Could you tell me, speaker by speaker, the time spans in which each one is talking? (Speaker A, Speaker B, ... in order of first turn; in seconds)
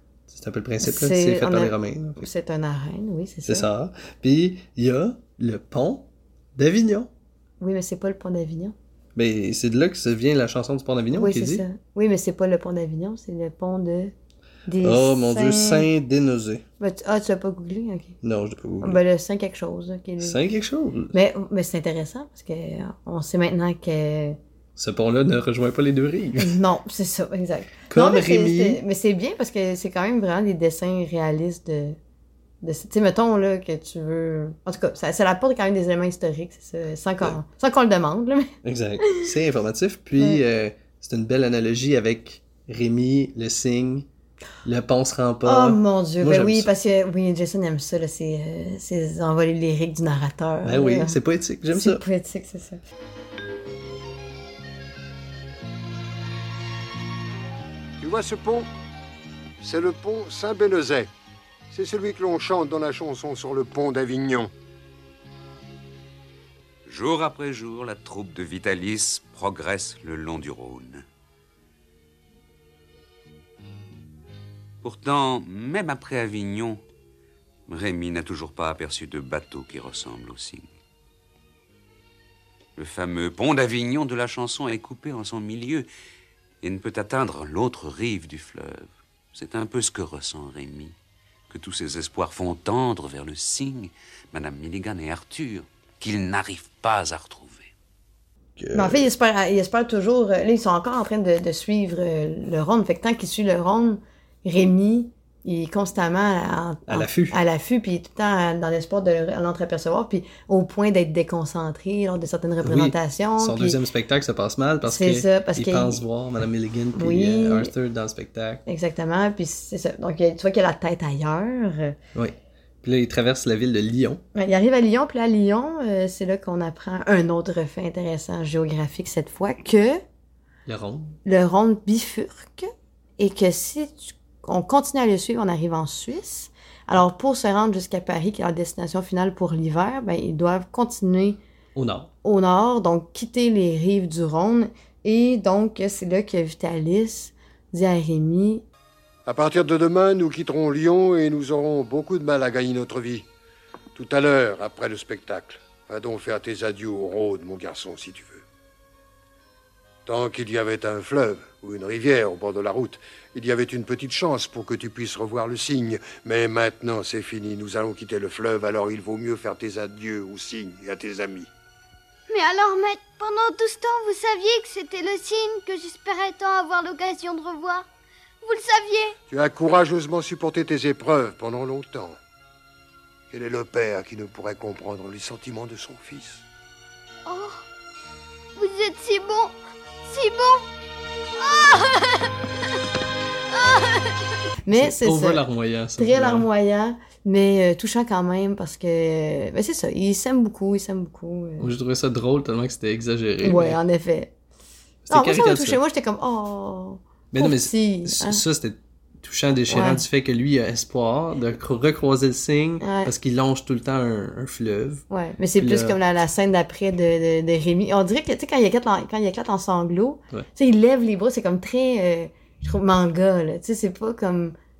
Speaker A: 0.3-2.2, 3.5-7.1, 9.2-11.7, 14.8-16.6, 18.2-19.0, 20.2-21.1, 24.8-26.6, 27.9-28.8, 38.6-44.1, 44.6-46.7, 50.6-52.0, 98.6-99.1, 106.9-107.4, 112.6-118.6, 122.2-124.2, 130.7-131.1, 141.8-142.1, 194.7-196.5, 201.6-203.8, 205.1-205.8, 207.3-215.0, 215.6-216.0
Speaker B: 0.8-3.7, 7.6-8.8, 11.1-14.1, 14.7-15.9, 16.8-18.2, 18.8-20.4, 21.1-24.4, 26.4-32.0, 32.6-39.3, 45.5-51.2, 51.7-52.8, 98.7-113.8, 114.8-116.0, 117.0-117.7, 118.7-122.0, 124.3-130.0, 131.2-141.4, 142.2-148.6, 194.7-195.4, 196.0-201.7, 203.4-204.3, 205.1-208.4, 209.7-210.0, 212.8-213.1, 215.1-224.6
Speaker C: 58.0-58.7, 59.6-61.1, 61.7-64.5, 149.3-153.3, 153.9-158.4, 160.1-171.5, 179.3-182.2, 183.3-186.4
Speaker D: 66.9-71.0, 74.8-76.8, 77.7-80.7, 82.8-85.9, 86.6-91.0, 91.5-97.7
Speaker E: 172.3-177.9, 178.4-179.2, 187.3-187.6, 188.6-190.7, 191.4-192.8, 193.5-194.3